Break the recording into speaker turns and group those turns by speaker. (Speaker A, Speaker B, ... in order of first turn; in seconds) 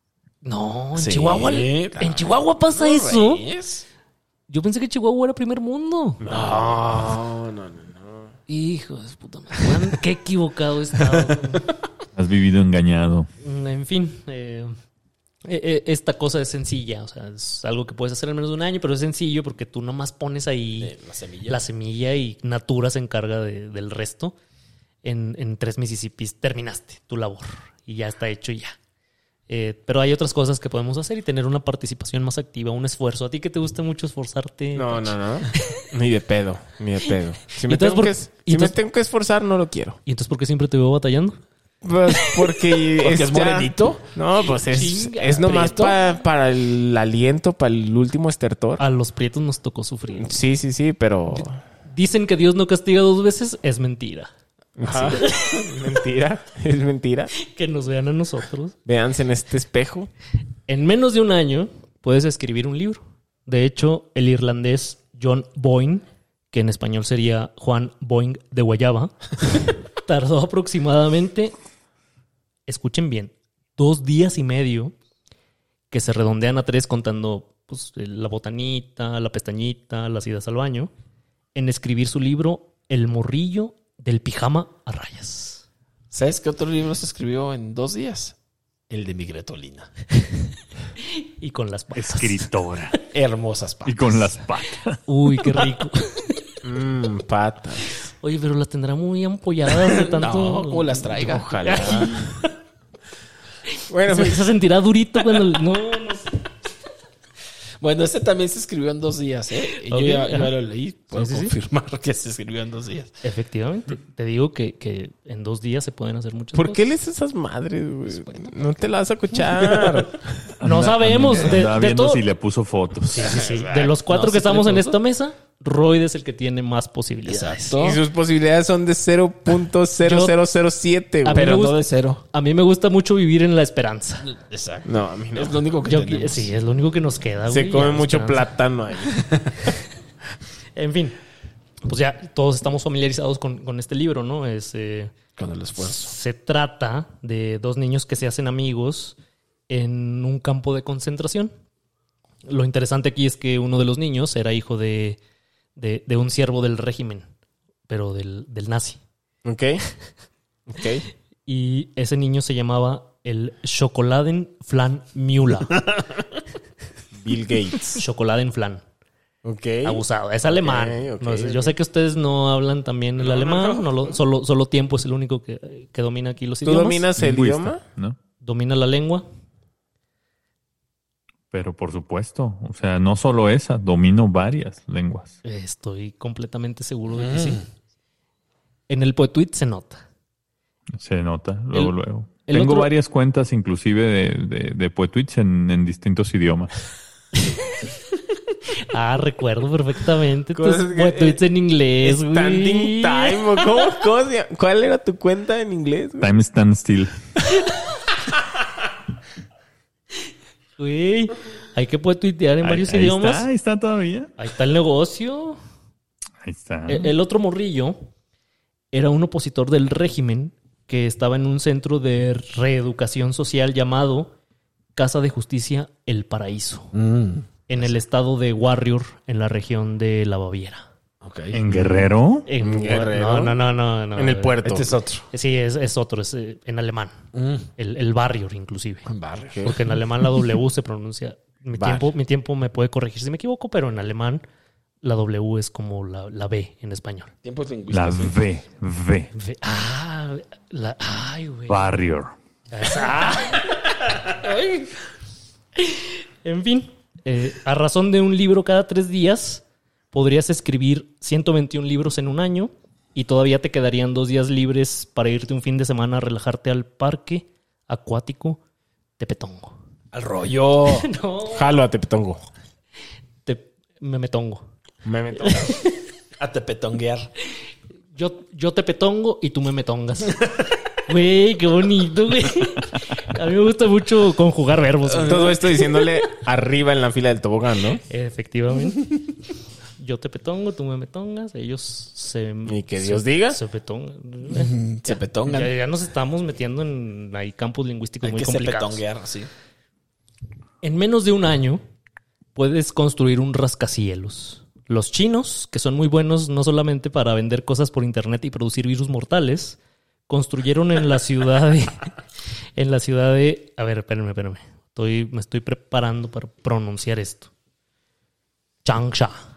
Speaker A: 0.4-3.5, 4.5-6.2, 8.5-11.7, 13.4-14.7, 15.4-20.9, 21.5-24.4, 25.0-28.8, 29.5-35.8, 37.6-38.8, 40.1-41.4, 44.6-46.1, 48.8-50.3, 51.3-54.3, 55.1-55.6, 57.4-58.8, 60.7-71.5, 72.7-74.9, 75.9-80.9, 81.5-85.6, 91.0-92.4, 95.1-96.4, 98.2-101.0, 101.7-102.3, 104.1-106.3, 109.9-110.5, 111.1-111.5, 113.2-116.9, 120.6-122.2, 123.1-128.0, 130.0-130.4, 131.2-131.8, 132.3-134.3, 135.9-138.5, 140.8-141.2, 141.8-145.1, 145.8-149.2, 149.7-151.5, 152.5-155.2, 155.8-157.3, 157.9-159.0, 161.5-165.8, 167.9-168.8, 169.8-177.1, 178.4-179.2, 185.4-187.6, 188.9-190.0, 191.7-192.9, 198.9-203.8, 210.8-213.5, 214.4-215.6, 216.9-218.0, 218.9-224.3, 225.0-226.9, 227.7-230.9, 232.5-234.6, 235.3-237.2, 237.8-239.1, 239.7-244.4, 245.0-247.3, 249.4-251.9, 252.7-253.7, 255.8-268.6, 269.2-269.8, 270.9-271.7, 273.4-274.6, 275.4-276.0, 278.1-280.4, 281.1-285.9, 288.1-289.3, 290.0-299.0, 300.8-301.8, 302.6-309.8, 310.3-312.1, 312.8-317.5, 318.9-319.4
Speaker B: 0.9-3.9, 6.3-7.2, 20.8-21.6, 43.0-44.0, 45.5-45.9, 54.9-55.2, 86.1-88.3, 88.9-89.9, 93.1-94.3, 100.1-102.1, 107.8-113.1, 118.1-118.5, 119.6-120.1, 123.2-125.0, 127.3-128.0, 131.3-132.2, 134.2-136.5, 145.4-146.1, 187.2-187.6, 226.9-227.9, 231.2-232.1, 234.7-235.3, 237.3-237.7, 239.1-239.7, 247.4-248.4, 254.2-254.9, 270.1-271.1, 276.4-277.3, 294.5-295.7, 298.2-299.5
Speaker C: 6.2-8.3, 34.8-40.0, 41.8-48.8, 50.2-51.5, 54.8-57.3, 58.9-60.1, 96.6-98.1, 101.2-102.3, 103.9-104.4, 116.5-120.2, 127.8-131.7, 134.8-135.6, 137.5-139.3, 159.4-159.9, 160.7-161.1, 167.2-168.0, 169.4-171.7, 173.4-173.7, 176.6-177.8, 200.6-201.4, 202.0-206.3, 232.6-233.6, 234.2-234.9, 241.8-242.1, 271.5-272.4, 275.1-275.8, 285.3-288.0, 292.7-293.6
Speaker D: 12.2-13.3, 92.0-93.0, 93.8-95.0, 120.6-123.4, 177.2-178.2, 181.5-185.3, 191.0-196.7, 206.2-207.1, 212.6-214.3, 216.4-217.1, 231.5-232.5, 247.9-249.3, 251.7-252.3